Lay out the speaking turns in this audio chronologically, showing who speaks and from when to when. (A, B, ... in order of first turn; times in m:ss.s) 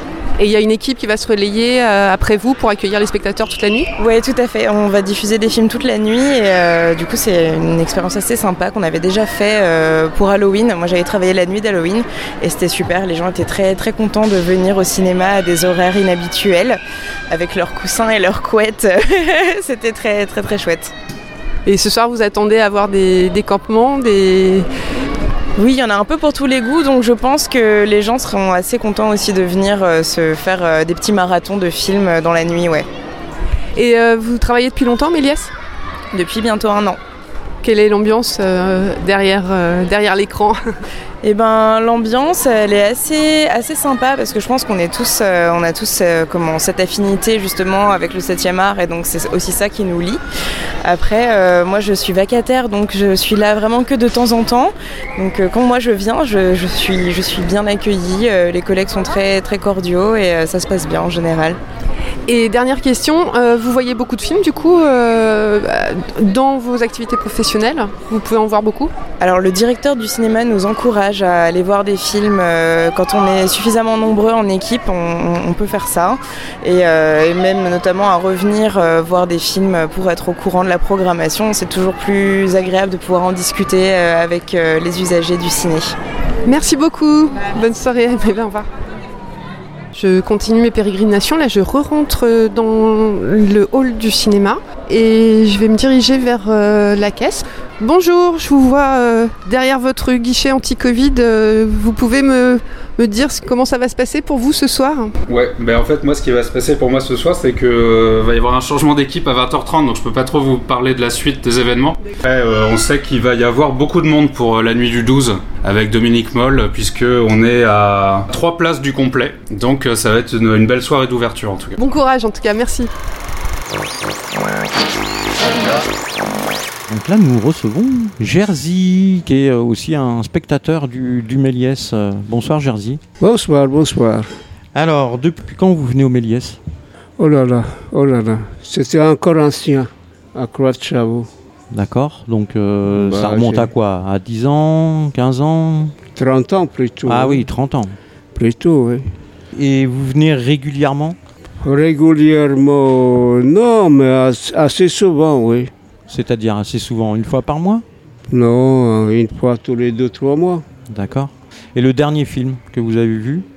0:00.4-0:03.9 A
0:04.0-0:20.9 B
0:21.7-0:24.7 A
0:25.6-0:32.9 B
0:33.8-0:35.5 A
0:36.1-0:37.0 B
0:37.6-0:40.6 A
0:41.2-0:50.2 B
0:50.8-1:01.6 B
1:02.3-1:08.9 A
1:09.2-1:25.9 B
1:26.5-1:28.7 A
1:29.9-1:45.2 A
1:45.3-2:01.8 C
2:01.8-2:02.9 A
2:06.9-2:13.0 D
2:13.2-2:14.3 E
2:14.7-2:16.6 D
2:17.2-2:21.3 E
2:21.7-2:26.0 D
2:22.9-2:23.7 E
2:26.2-2:27.5 E
2:27.1-2:28.0 D
2:28.4-2:29.1 E
2:29.5-2:31.2 D
2:31.6-2:35.7 E
2:36.1-2:37.8 D
2:38.3-2:40.6 E
2:40.9-2:43.5 D